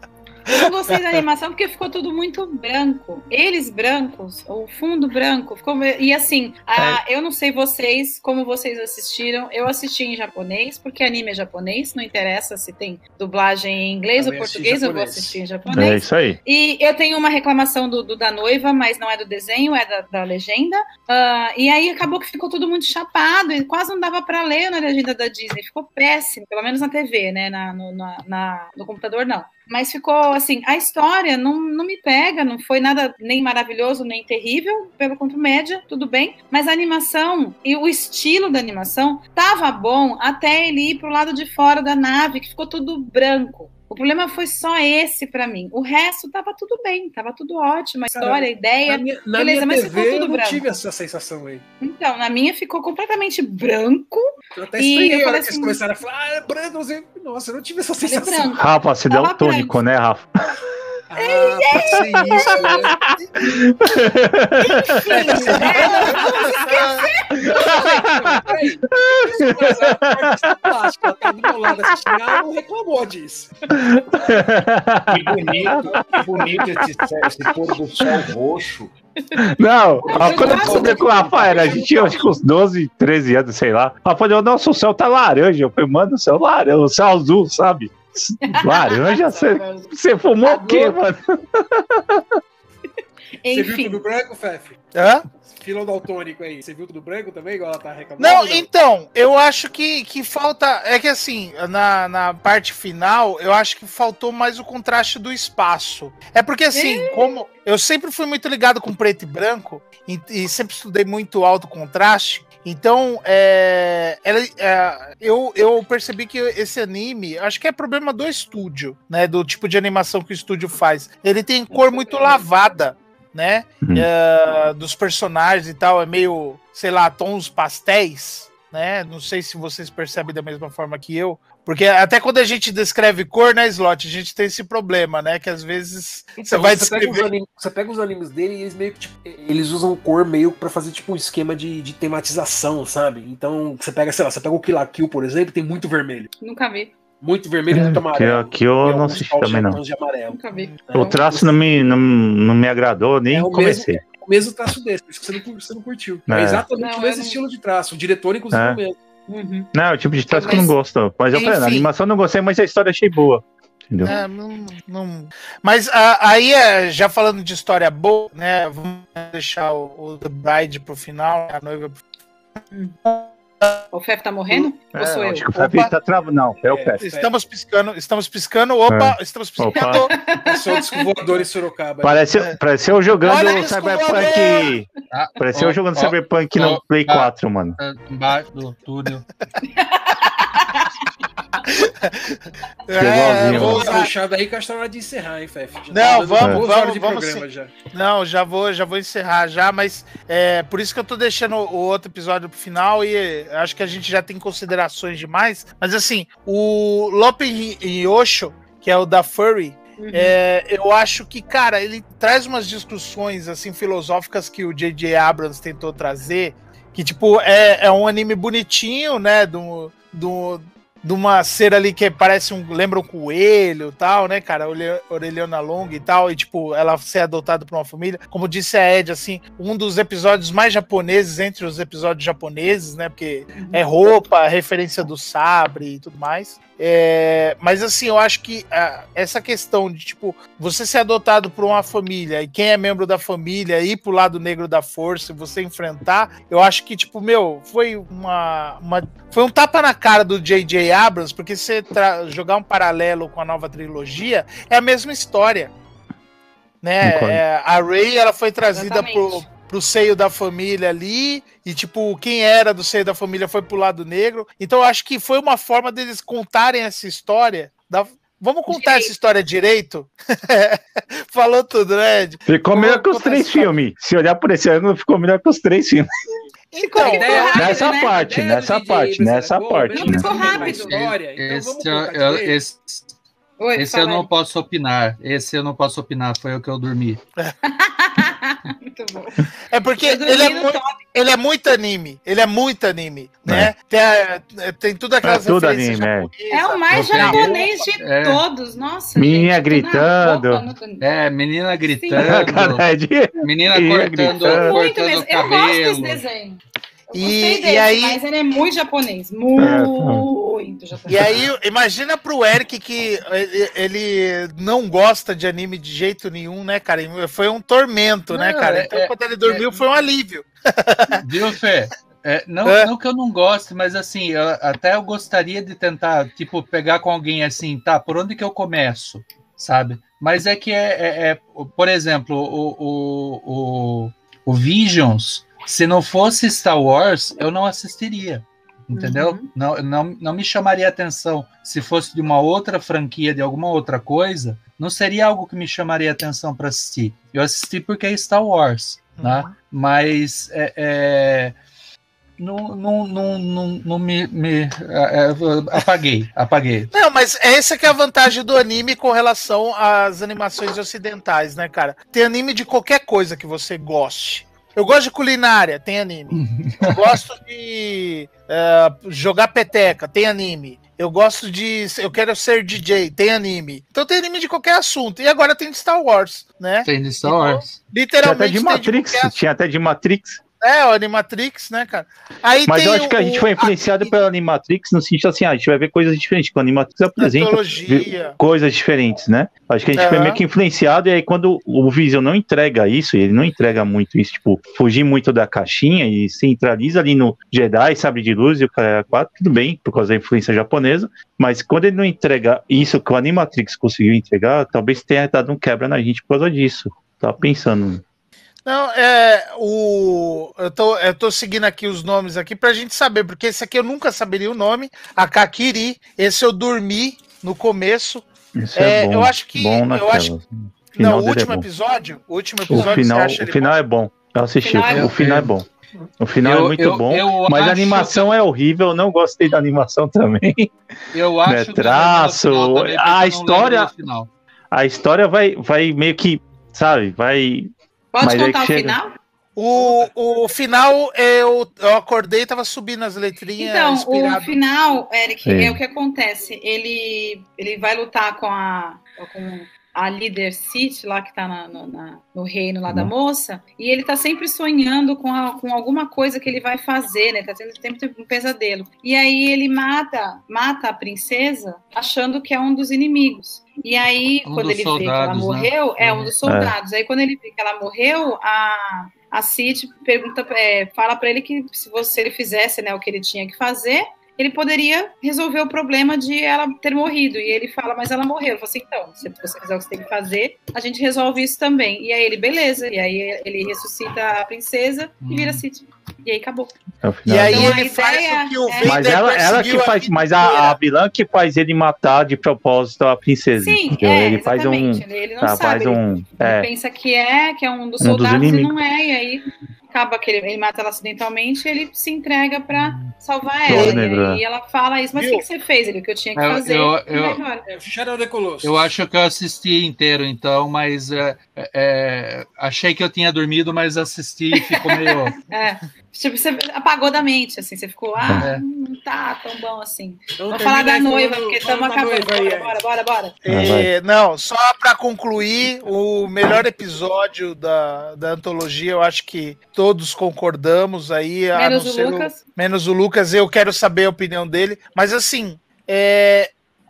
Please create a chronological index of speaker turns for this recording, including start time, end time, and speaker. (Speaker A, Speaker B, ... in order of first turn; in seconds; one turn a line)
Speaker A: 0.5-50.7
Speaker B: 6.8-7.0
Speaker C: 14.2-15.4
Speaker B: 15.7-16.4
Speaker C: 48.1-51.6
Speaker A: 51.8-55.8
Speaker C: 54.6-58.6
Speaker A: 58.0-59.8
Speaker B: 58.6-60.6
Speaker C: 61.1-63.1
Speaker A: 61.1-62.9
Speaker B: 62.3-62.8
Speaker B: 63.4-65.5
Speaker A: 64.6-68.0
Speaker C: 65.0-74.3
Speaker D: 65.6-67.1
Speaker B: 67.4-68.4
Speaker B: 68.9-70.8
Speaker B: 71.9-72.4
Speaker B: 73.7-78.3
Speaker E: 75.1-78.9
Speaker C: 75.7-76.2
Speaker B: 79.4-92.4
Speaker A: 80.0-81.1
Speaker C: 80.1-82.2
Speaker E: 80.1-82.2
Speaker A: 88.4-89.9
Speaker A: 90.4-91.0
Speaker A: 93.4-94.0
Speaker C: 93.5-94.8
Speaker D: 95.0-95.2
Speaker C: 95.6-98.7
Speaker D: 98.2-137.3
Speaker A: 106.7-107.3
Speaker C: 136.4-146.3
Speaker A: 146.4-146.9
Speaker C: 147.2-151.6
Speaker B: 147.7-149.8
Speaker A: 150.3-151.2
Speaker B: 150.9-154.0
Speaker C: 153.3-159.0
Speaker B: 156.3-156.7
Speaker A: 156.7-157.4
Speaker B: 158.5-158.8
Speaker A: 159.3-159.7
Speaker B: 159.7-164.2
Speaker A: 160.3-160.7
Speaker D: 161.3-161.8
Speaker D: 164.0-172.0
Speaker A: 172.7-173.0
Speaker D: 173.0-173.8
Speaker A: 173.9-175.5
Speaker D: 174.5-175.9
Speaker B: 175.0-177.0
Speaker C: 176.6-177.3
Speaker D: 177.0-180.2
Speaker B: 178.9-180.1
Speaker A: 179.8-181.1
Speaker C: 180.2-182.3
Speaker B: 182.0-184.9
Speaker D: 183.2-184.7
Speaker F: 185.1-189.3
Speaker B: 185.4-187.8
Speaker A: 189.6-191.0
Speaker D: 191.6-194.1
Speaker B: 193.0-194.0
Speaker C: 193.3-197.7
Speaker D: 195.9-255.7
Speaker B: 196.4-196.7
Speaker A: 210.0-210.4
Speaker A: 233.5-233.8
Speaker D: 256.8-273.7
Speaker B: 257.0-257.4
Speaker A: 258.8-259.4
Speaker A: 268.7-269.1
Speaker B: 272.5-276.1
Speaker D: 276.7-277.8
Speaker A: 276.8-278.1
Speaker C: 277.0-282.6
Speaker B: 277.4-280.3
Speaker A: 279.9-281.0
Speaker F: 280.1-283.1
Speaker A: 283.6-284.3
Speaker F: 283.8-287.2
Speaker A: 287.7-289.5
Speaker D: 289.7-297.7
Speaker A: 290.0-291.0
Speaker B: 293.5-293.7
Speaker B: 295.2-296.3
Speaker A: 296.5-301.1
Speaker F: 296.9-298.4
Speaker B: 299.2-300.7
Speaker F: 301.0-306.2
Speaker A: 302.0-302.4
Speaker B: 302.1-304.8
Speaker A: 304.5-311.4
Speaker D: 307.1-308.2
Speaker B: 309.6-310.3
Speaker D: 311.1-321.2
Speaker F: 318.3-319.8
Speaker F: 321.2-351.6
Speaker D: 322.6-322.9
Speaker A: 338.9-339.5
Speaker D: 349.2-349.5
Speaker F: 352.4-356.9
Speaker D: 356.9-379.4
Speaker F: 366.3-367.2
Speaker F: 376.9-377.8
Speaker B: 378.2-380.4
Speaker D: 380.6-384.2
Speaker B: 382.6-408.0
Speaker D: 387.2-388.4
Speaker D: 390.0-390.4
Speaker D: 408.6-420.3
Speaker B: 418.6-421.7
Speaker D: 421.0-423.8
Speaker B: 422.7-425.7
Speaker A: 424.6-425.1
Speaker F: 424.9-425.5
Speaker B: 426.2-430.7
Speaker F: 426.4-428.3
Speaker F: 431.1-434.3
Speaker B: 431.5-433.9
Speaker B: 434.7-439.0
Speaker A: 438.1-439.1
Speaker D: 439.6-444.6
Speaker A: 443.6-486.8
Speaker B: 445.5-445.8
Speaker F: 464.5-466.3
Speaker B: 466.4-466.7
Speaker F: 485.2-485.6
Speaker B: 487.0-487.8
Speaker D: 487.3-490.8
Speaker A: 487.5-489.0
Speaker B: 488.8-496.7
Speaker A: 493.6-507.7
Speaker B: 498.0-498.7
Speaker F: 502.7-503.1
Speaker B: 503.7-504.4
Speaker D: 503.7-504.0
Speaker D: 505.1-505.4
Speaker F: 506.4-507.4
Speaker C: 507.7-508.9
Speaker F: 508.6-515.4
Speaker A: 514.5-523.3
Speaker B: 518.2-518.5
Speaker F: 518.4-518.6
Speaker C: 520.4-522.8
Speaker D: 523.5-536.5
Speaker B: 523.5-523.9
Speaker A: 531.5-532.4